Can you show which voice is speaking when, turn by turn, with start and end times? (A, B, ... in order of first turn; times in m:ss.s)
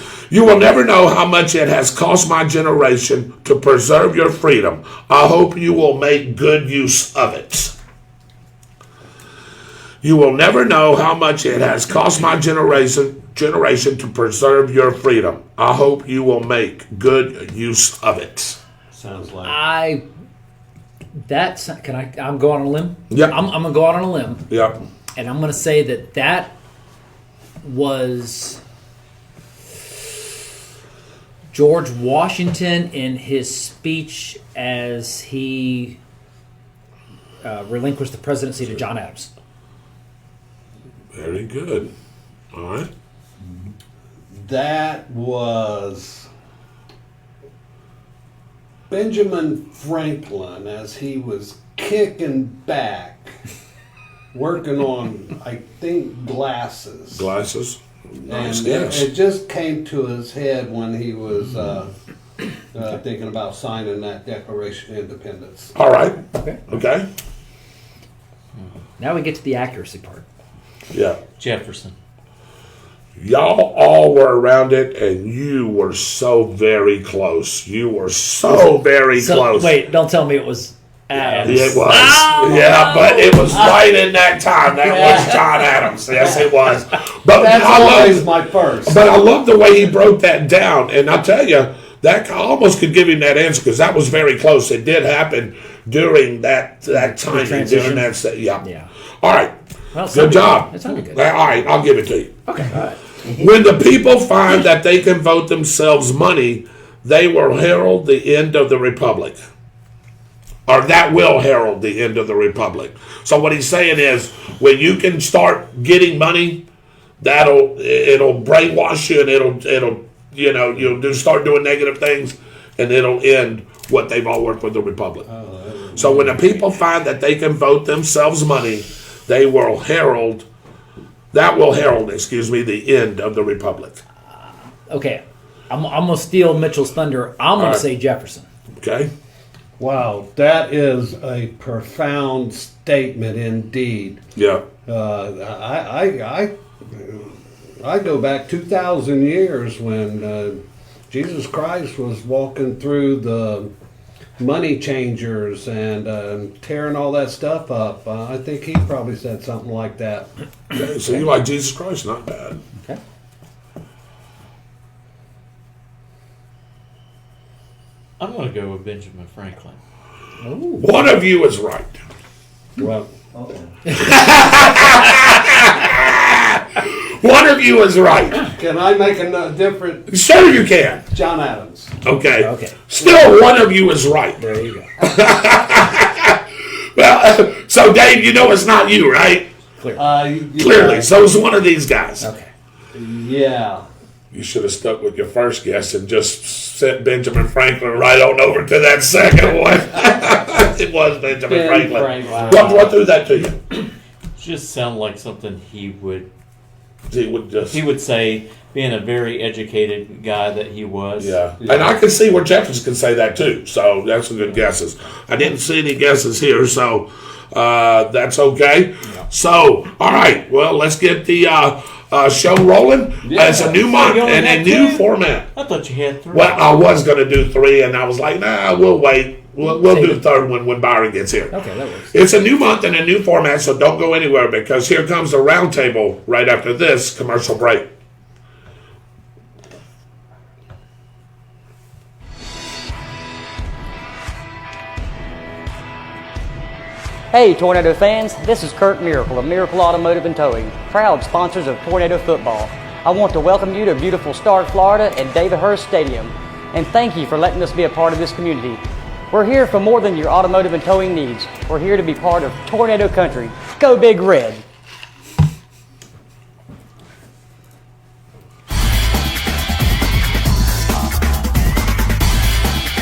0:00.3-0:07.8 A
0:10.0-0:18.6 A
0:18.9-0:19.6 B
0:19.4-0:20.0 C
0:21.2-0:24.5 C
0:23.1-0:23.4 A
0:24.5-0:24.8 A
0:25.2-0:26.5 C
0:27.6-0:28.6 C
0:31.5-0:36.0 C
0:37.4-0:39.3 C
0:41.2-0:41.9 A
0:42.5-0:42.9 A
0:44.3-0:46.3 B
0:48.9-0:53.4 B
0:54.3-0:57.3 B
0:57.1-0:59.1 A
0:58.3-1:01.9 B
1:02.7-1:05.7 B
1:05.8-1:07.1 A
1:06.3-1:06.6 C
1:09.0-1:10.2 C
1:10.9-1:11.2 A
1:11.4-1:12.0 D
1:13.2-1:19.7 A
1:19.1-1:23.8 C
1:21.3-1:21.7 D
1:21.4-1:28.3 A
1:24.8-1:25.4 C
1:27.3-1:29.0 B
1:28.8-1:38.6 A
1:36.9-1:38.1 C
1:38.6-1:38.9 C
1:39.2-1:39.5 A
1:39.9-1:41.3 C
1:40.1-1:42.3 A
1:42.5-1:43.0 C
1:43.2-1:49.4 A
1:50.7-1:56.6 A
1:57.2-2:05.3 A
2:05.3-2:06.4 B
2:06.0-2:10.5 A
2:11.3-2:14.0 A
2:14.3-2:18.5 C
2:17.6-2:17.8 A
2:18.8-2:19.1 A
2:19.8-2:24.2 B
2:24.4-2:24.6 A
2:24.9-2:33.7 B
2:34.4-2:40.3 B
2:40.7-2:42.6 A
2:48.2-2:49.8 D
2:50.4-2:50.9 C
2:50.8-2:52.0 A
2:52.8-2:53.6 B
2:53.9-2:58.5 A
2:54.5-2:54.9 C
2:58.4-3:00.1 B
3:00.1-3:01.0 A
3:01.1-3:02.0 B
3:02.0-3:04.4 A
3:02.4-3:02.8 C
3:04.4-3:04.9 C
3:05.0-3:06.4 A
3:07.0-3:09.5 A
3:09.9-3:11.1 B
3:10.6-3:12.3 A
3:12.2-3:12.5 C
3:12.9-3:13.8 B
3:14.3-3:23.6 A
3:21.5-3:22.9 B
3:24.4-3:26.3 D
3:27.1-3:27.8 A
3:27.7-3:31.4 D
3:31.2-3:45.5 A
3:31.6-3:31.9 B
3:43.2-3:43.9 B
3:43.8-3:46.6 D
3:46.3-3:51.6 A
3:49.8-3:50.2 C
3:51.5-3:52.1 C
3:52.1-3:57.9 A
4:07.3-4:24.6 E